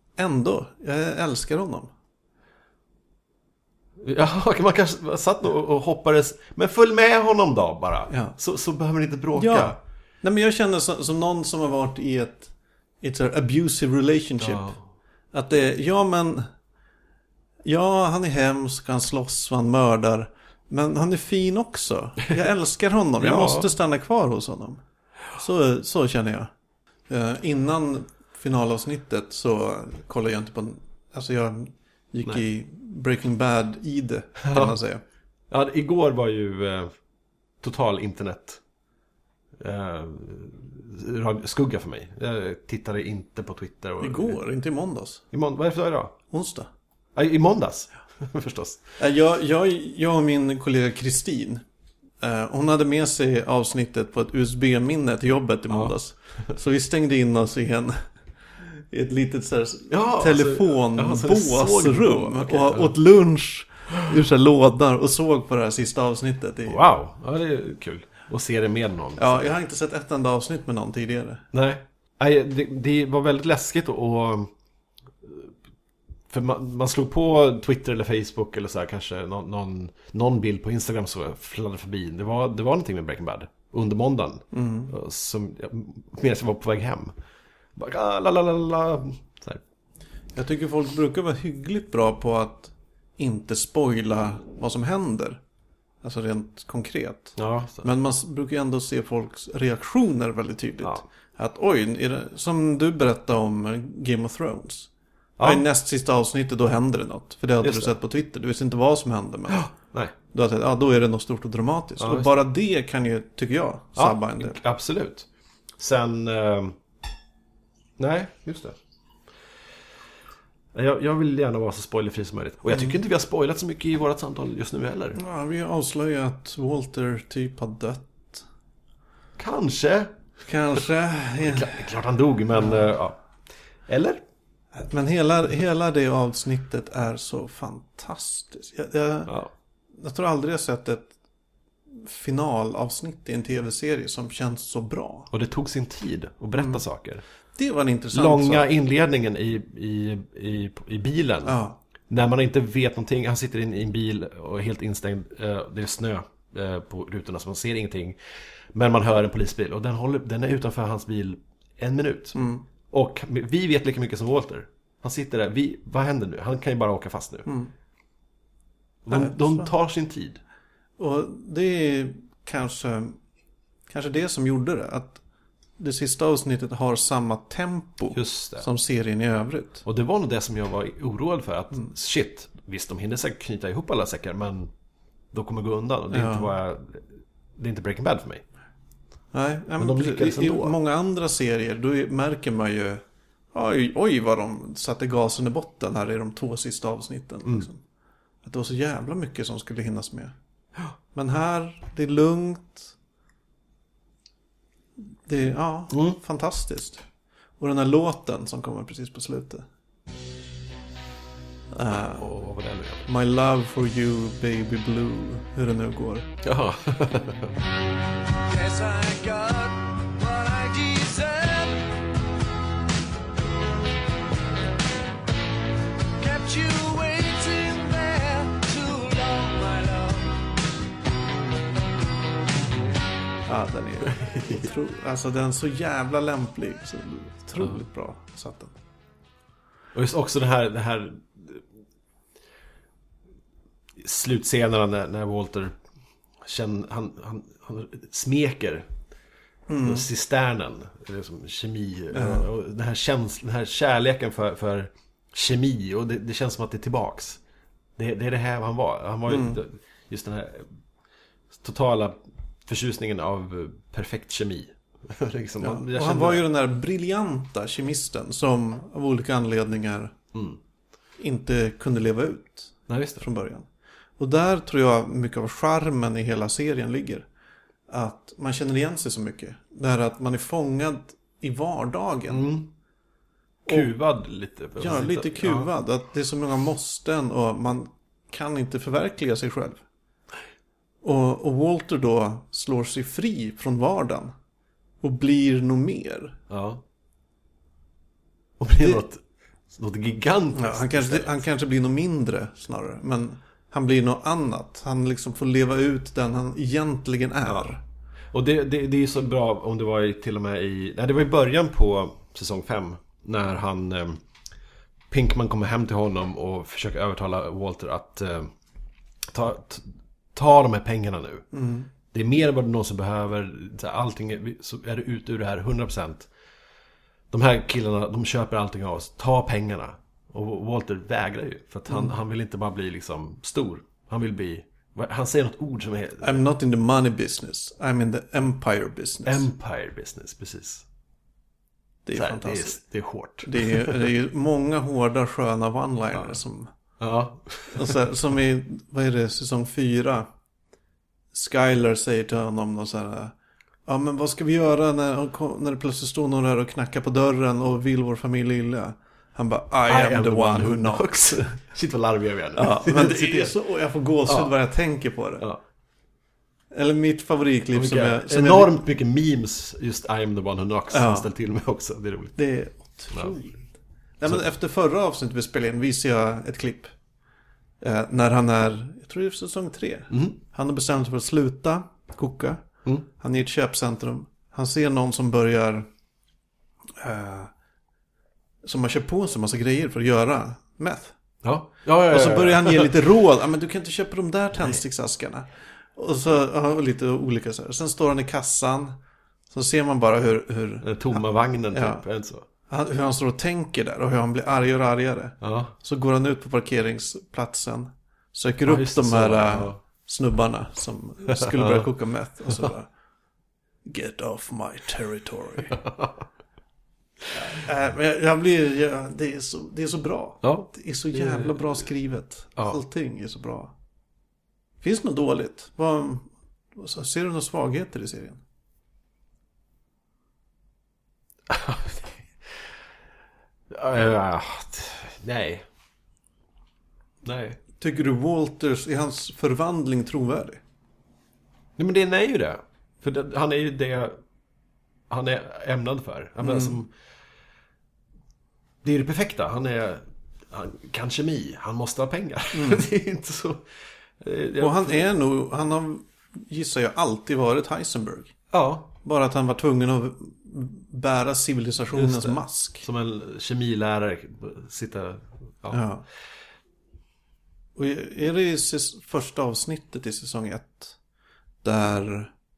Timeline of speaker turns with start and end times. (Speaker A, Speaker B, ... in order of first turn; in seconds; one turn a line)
Speaker A: 0.1-1.9
Speaker B: 4.0-9.8
Speaker A: 8.1-8.3
Speaker A: 9.3-14.8
Speaker B: 14.4-14.8
Speaker A: 15.3-16.5
Speaker A: 17.6-24.8
Speaker B: 23.2-23.7
Speaker A: 25.3-26.5
Speaker A: 27.1-35.0
Speaker B: 34.5-34.8
Speaker B: 35.5-36.9
Speaker B: 37.6-38.6
Speaker B: 39.6-44.4
Speaker A: 44.0-45.2
Speaker B: 45.3-46.1
Speaker A: 46.3-46.7
Speaker B: 47.1-48.8
Speaker A: 49.0-51.6
Speaker A: 52.2-58.0
Speaker A: 58.7-66.8
Speaker B: 59.9-62.9
Speaker B: 66.7-69.5
Speaker A: 69.2-71.4
Speaker B: 71.5-74.5
Speaker B: 75.2-75.5
Speaker B: 76.3-87.1
Speaker A: 84.5-84.9
Speaker B: 87.8-89.6
Speaker A: 90.3-95.4
Speaker A: 96.0-109.7
Speaker B: 97.4-97.9
Speaker B: 105.4-105.6
Speaker B: 107.6-107.9
Speaker B: 109.5-110.1
Speaker A: 110.3-114.6
Speaker B: 112.0-112.4
Speaker B: 114.0-116.8
Speaker B: 118.0-118.8
Speaker B: 120.7-125.2
Speaker A: 122.7-123.0
Speaker A: 125.1-128.4
Speaker B: 129.4-130.1
Speaker A: 130.4-131.9
Speaker B: 131.4-133.2
Speaker A: 132.6-132.8
Speaker B: 133.9-134.2
Speaker A: 134.8-139.3
Speaker A: 139.9-141.1
Speaker A: 141.9-145.3
Speaker B: 145.3-147.2
Speaker A: 146.6-146.8
Speaker A: 147.6-148.7
Speaker B: 148.1-151.6
Speaker A: 151.4-151.8
Speaker B: 152.1-158.2
Speaker B: 158.7-162.4
Speaker A: 162.3-162.7
Speaker B: 162.9-167.5
Speaker A: 167.4-167.7
Speaker B: 169.0-170.4
Speaker A: 169.1-169.7
Speaker A: 171.0-173.2
Speaker A: 173.9-175.2
Speaker A: 175.8-179.8
Speaker B: 178.1-178.7
Speaker B: 179.8-184.7
Speaker B: 185.3-187.1
Speaker A: 186.1-186.5
Speaker B: 187.6-188.4
Speaker A: 189.3-193.0
Speaker B: 189.8-190.8
Speaker A: 193.5-197.8
Speaker A: 198.4-200.3
Speaker A: 201.1-202.9
Speaker A: 205.2-207.0
Speaker B: 205.9-206.2
Speaker A: 207.6-209.7
Speaker A: 211.7-212.3
Speaker B: 211.9-213.1
Speaker A: 213.1-216.3
Speaker B: 216.4-217.5
Speaker C: 218.4-222.1
Speaker C: 226.2-230.8
Speaker A: 233.5-238.7
Speaker B: 234.1-234.7
Speaker B: 239.9-241.6
Speaker B: 244.0-245.8
Speaker B: 246.4-248.9
Speaker A: 249.7-250.1
Speaker B: 249.8-257.4
Speaker A: 252.1-252.5
Speaker B: 258.0-260.7
Speaker A: 259.3-259.6
Speaker B: 261.5-266.4
Speaker A: 265.6-270.2
Speaker A: 271.2-273.7
Speaker B: 272.9-273.2
Speaker A: 274.2-277.3
Speaker A: 277.9-282.6
Speaker B: 282.3-282.7
Speaker A: 283.6-283.9
Speaker B: 283.7-285.7
Speaker A: 284.8-289.8
Speaker A: 291.0-294.3
Speaker A: 295.0-296.4
Speaker B: 296.5-296.8
Speaker B: 298.6-301.4
Speaker A: 300.5-307.8
Speaker B: 307.4-307.7
Speaker B: 308.3-314.2
Speaker B: 315.1-318.5
Speaker B: 319.2-321.5
Speaker A: 321.5-321.9
Speaker B: 322.0-326.3
Speaker B: 327.3-336.4
Speaker A: 336.2-339.5
Speaker B: 339.2-340.8
Speaker A: 342.1-342.8
Speaker B: 342.1-344.0
Speaker A: 343.4-346.7
Speaker B: 347.0-347.9
Speaker A: 347.7-350.3
Speaker A: 351.3-353.3
Speaker A: 353.9-361.4
Speaker B: 359.9-363.6
Speaker A: 362.5-365.4
Speaker B: 364.2-364.5
Speaker A: 366.7-368.8
Speaker B: 367.7-372.4
Speaker A: 370.9-371.3
Speaker A: 372.4-376.9
Speaker A: 377.8-385.9
Speaker B: 380.1-380.4
Speaker A: 387.0-387.5
Speaker A: 388.6-391.1
Speaker B: 391.4-392.9
Speaker A: 392.1-399.0
Speaker A: 399.5-402.0
Speaker B: 400.8-402.4
Speaker A: 402.7-412.9
Speaker B: 405.4-405.7
Speaker B: 408.6-409.8
Speaker B: 411.3-411.9
Speaker A: 413.8-415.8
Speaker A: 417.3-423.7
Speaker B: 420.4-421.6
Speaker A: 424.8-428.4
Speaker B: 431.5-432.7
Speaker B: 433.7-435.6
Speaker B: 437.2-437.6
Speaker A: 437.8-440.6
Speaker B: 441.8-444.2
Speaker B: 445.1-446.9
Speaker A: 446.4-446.8
Speaker B: 448.8-453.6
Speaker A: 452.5-452.9
Speaker B: 454.2-455.1
Speaker A: 454.6-458.3
Speaker B: 458.5-458.9
Speaker A: 459.0-462.8
Speaker B: 461.9-465.8
Speaker A: 465.7-466.0
Speaker A: 467.8-471.0
Speaker A: 471.6-472.3